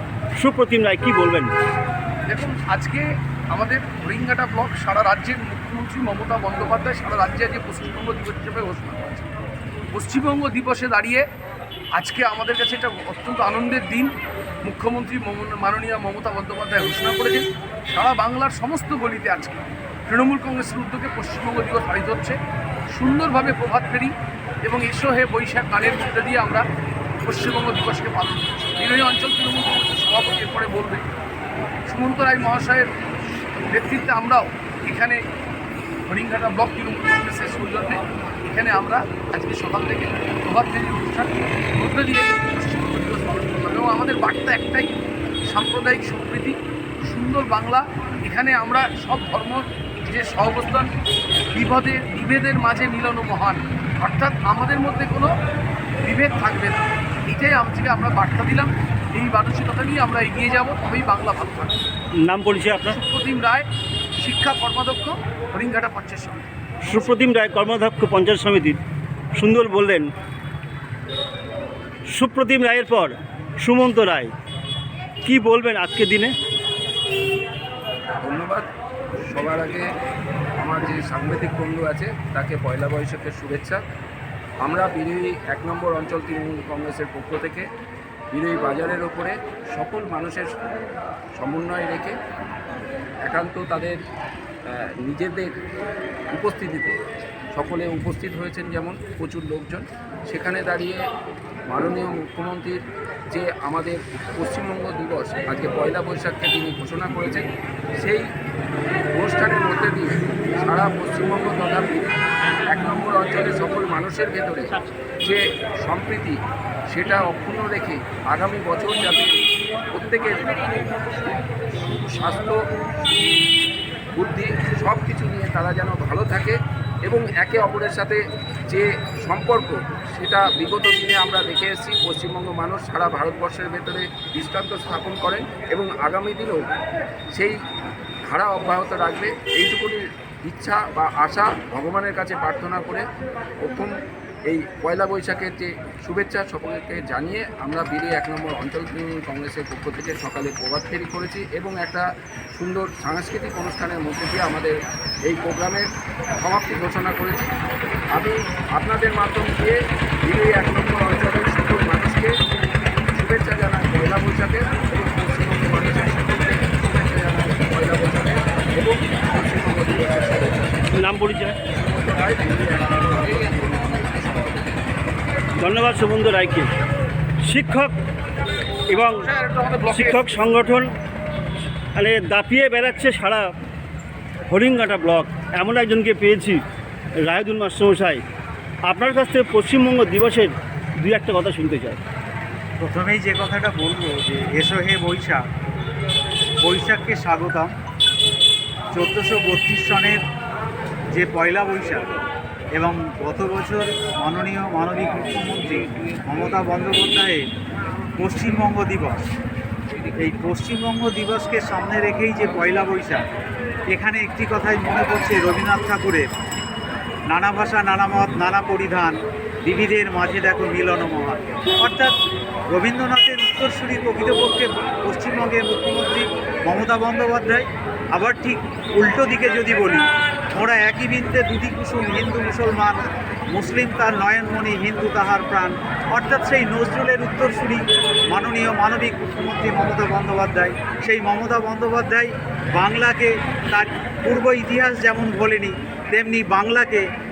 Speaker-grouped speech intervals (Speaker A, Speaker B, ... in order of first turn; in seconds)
Speaker A: 0.4-1.5, 62.2-63.0, 66.8-68.8, 69.3-70.1, 72.1-74.3, 75.2-76.3, 170.9-171.6, 175.6-176.7, 177.4-177.9, 178.9-179.2, 179.9-180.9, 181.9-183.5, 184.5-186.6, 187.2-188.2, 188.9-192.0
Speaker B: 2.3-9.3, 9.9-11.3, 11.9-22.4, 22.9-26.7, 27.2-31.1, 31.9-32.9, 33.7-35.2, 36.1-44.9, 45.5-50.9, 51.5-55.3, 56.0-61.8, 62.8-66.9, 179.2-180.2
Speaker C: 78.2-78.7, 79.3-79.9, 80.6-83.8, 84.6-87.7, 88.3-90.5, 91.3-92.2, 93.3-94.0, 94.7-95.5, 96.3-97.0, 97.5-101.0, 101.7-107.5, 108.0-108.2, 109.1-112.2, 112.7-116.4, 116.9-119.3, 119.9-122.6, 124.2-128.2, 128.7-136.6, 138.3-143.1, 143.6-143.9, 144.5-154.7, 155.3-155.9, 156.4-157.5, 158.2-162.3, 163.2-170.9, 171.7-174.7
Speaker D: 192.8-195.4, 196.6-197.7, 198.9-200.2, 201.1-202.1, 202.8-207.4, 208.2-209.2, 210.2-213.2, 213.9-216.2, 217.3-222.2, 222.7-233.0, 233.5-247.0